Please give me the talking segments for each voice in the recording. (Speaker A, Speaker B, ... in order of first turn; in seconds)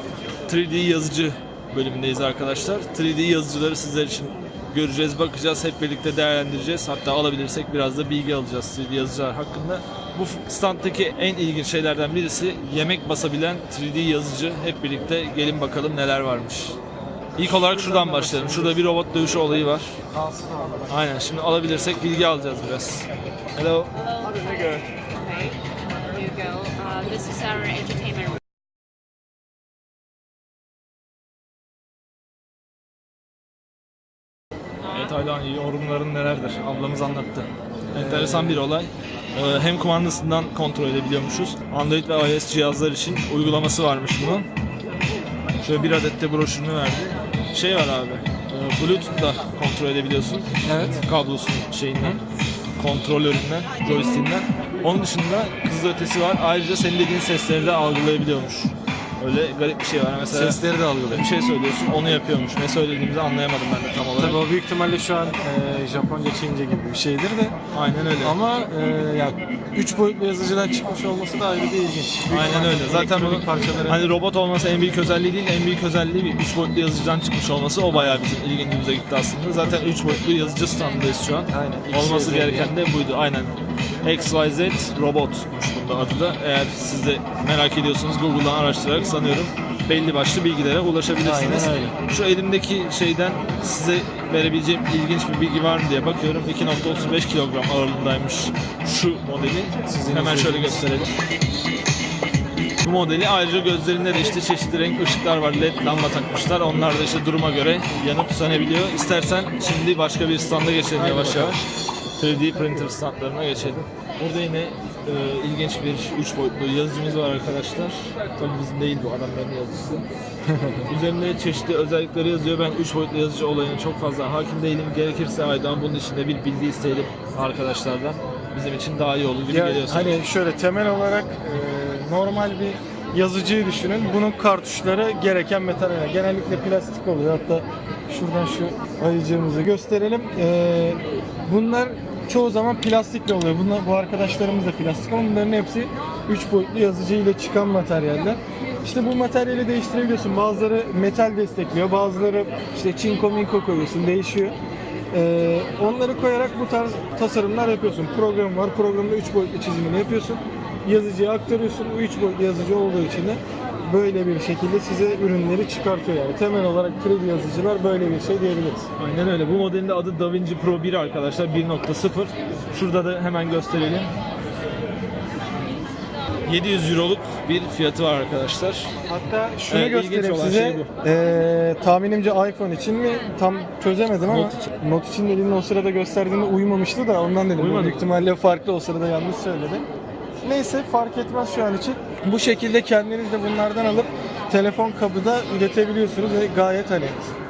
Speaker A: 0.5-16.8, 17.4-20.0, 20.9-23.9, 34.9-44.5, 45.6-52.2, 52.8-60.6, 61.1-64.4, 67.7-68.4, 72.3-83.5, 84.0-101.1, 102.8-120.0, 120.9-130.2, 169.0-174.1, 176.4-179.0, 179.7-180.9, 184.3-184.7, 187.6-188.1
Speaker B: 17.4-18.8, 20.1-20.9, 37.9-38.7, 48.5-48.8, 50.6-51.1, 60.3-61.2, 64.2-67.5, 68.2-74.0, 77.9-78.3, 81.5-82.7, 91.2-92.0, 99.8-101.1, 110.9-111.6, 120.5-120.9, 129.5-154.6, 155.1-168.9, 179.0-189.8, 190.4-197.2
Speaker C: 24.0-28.4